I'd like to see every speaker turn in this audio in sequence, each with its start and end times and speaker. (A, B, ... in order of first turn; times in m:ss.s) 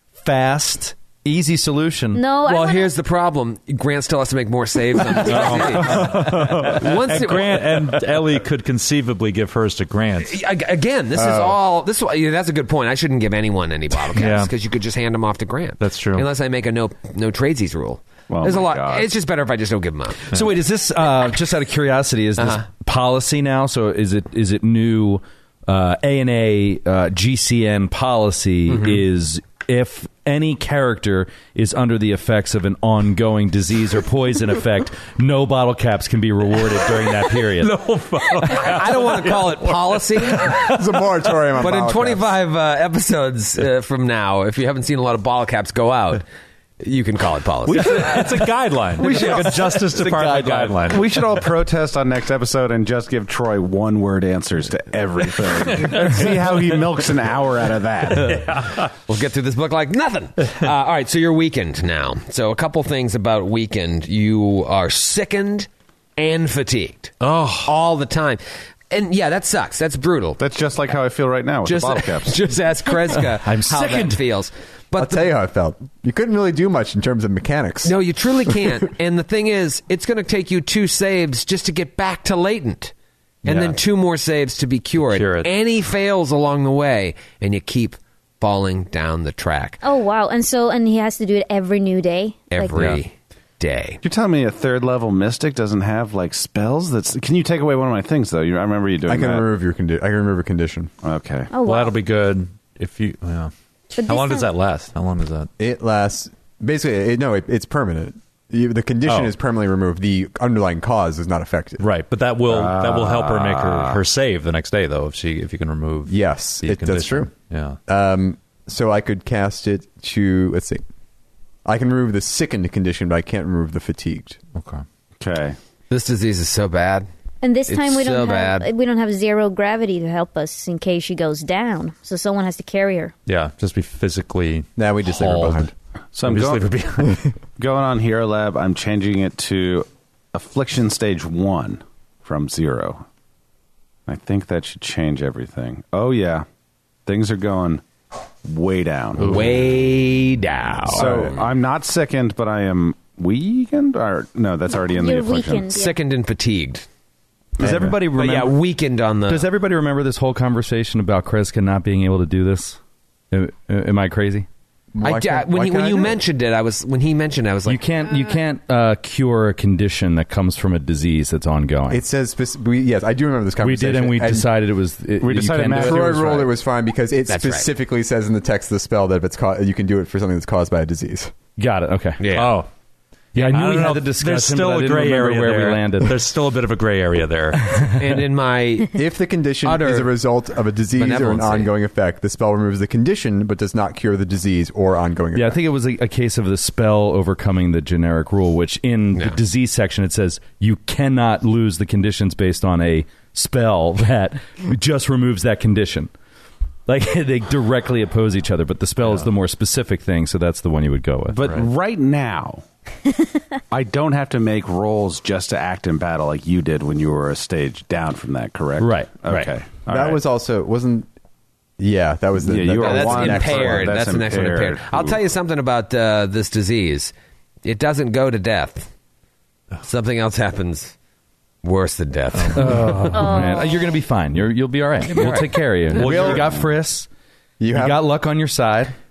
0:00.2-0:02.2 A
0:02.1-0:02.9 B
0:02.4-0:08.0 C
0:05.1-0:10.4 D
0:10.2-0:20.3 C
0:11.1-0:11.6 E
0:14.1-0:14.5 D
0:15.8-0:16.2 D
0:18.3-0:19.1 F
0:20.3-0:37.8 A
0:22.4-0:22.6 C
0:37.6-0:40.7 D
0:38.4-0:40.6 C
0:40.6-0:42.2 E
0:41.6-0:46.2 C
0:46.8-0:48.4 C
0:47.6-0:51.1 D
0:49.0-0:58.5 F
0:50.0-0:50.6 A
0:55.7-0:56.8 D
0:58.1-0:58.9 D
0:59.1-1:10.4 C
1:07.2-1:07.7 D
1:10.4-1:12.4 F
1:11.6-1:15.3 C
1:13.4-1:14.2 A
1:14.9-1:17.9 E
1:17.8-1:22.9 C
1:23.4-1:29.8 C
1:23.4-1:23.8 D
1:25.0-1:25.5 D
1:29.8-1:32.8 B
1:32.5-1:34.0 C
1:32.7-1:33.0 D
1:34.0-1:39.5 F
1:39.1-1:40.9 E
1:41.0-1:41.5 F
1:41.5-1:41.9 B
1:41.6-1:43.5 D
1:44.0-1:44.5 B
1:44.0-1:45.5 D
1:45.6-1:51.8 E
1:49.0-1:49.3 D
1:51.8-1:57.8 D
1:52.4-1:54.0 F
1:56.1-1:57.3 E
1:57.9-2:00.8 E
2:01.6-2:04.4 E
2:04.5-2:04.8 D
2:05.2-2:05.6 F
2:05.9-2:07.1 C
2:07.4-2:13.1 B
2:07.7-2:08.7 C
2:13.2-2:15.7 D
2:14.8-2:15.7 E
2:16.1-2:16.8 F
2:16.2-2:17.2 D
2:17.6-2:23.0 F
2:24.1-2:26.4 F
2:27.0-2:27.8 F
2:28.4-2:29.4 F
2:29.2-2:31.3 C
2:30.9-2:35.8 F
2:30.9-2:31.3 E
2:34.9-2:35.9 B
2:35.7-2:36.8 C
2:37.6-2:38.6 A
2:37.6-2:38.0 E
2:38.1-2:39.5 C
2:39.3-2:42.8 A
2:43.3-2:44.5 A
2:44.9-2:46.2 E
2:45.0-2:48.2 C
2:47.6-2:52.0 A
2:51.9-2:54.5 E
2:53.6-2:56.4 A
2:55.2-2:56.5 F
2:55.7-3:01.3 E
2:57.3-2:57.7 C
3:01.6-3:02.2 A
3:02.2-3:02.6 C
3:02.3-3:02.7 D
3:03.3-3:07.7 D
3:03.4-3:06.2 A
3:07.5-3:08.1 A
3:08.0-3:09.0 C
3:08.9-3:15.6 E
3:09.6-3:10.2 C
3:10.9-3:11.7 C
3:15.3-3:26.1 A
3:26.8-3:31.5 A
3:31.3-3:32.6 F
3:33.7-3:40.2 F
3:38.8-3:39.5 A
3:39.9-3:41.1 E
3:41.8-3:43.9 E
3:42.4-3:45.2 F
3:42.8-3:47.1 C
3:47.6-3:48.9 C
3:49.8-3:50.9 C
3:51.6-3:53.1 C
3:52.3-3:53.2 D
3:52.5-3:57.1 A
3:53.1-3:53.8 B
3:55.2-3:56.4 D
3:55.9-3:56.5 E
3:57.6-3:58.0 E
3:57.7-3:58.9 A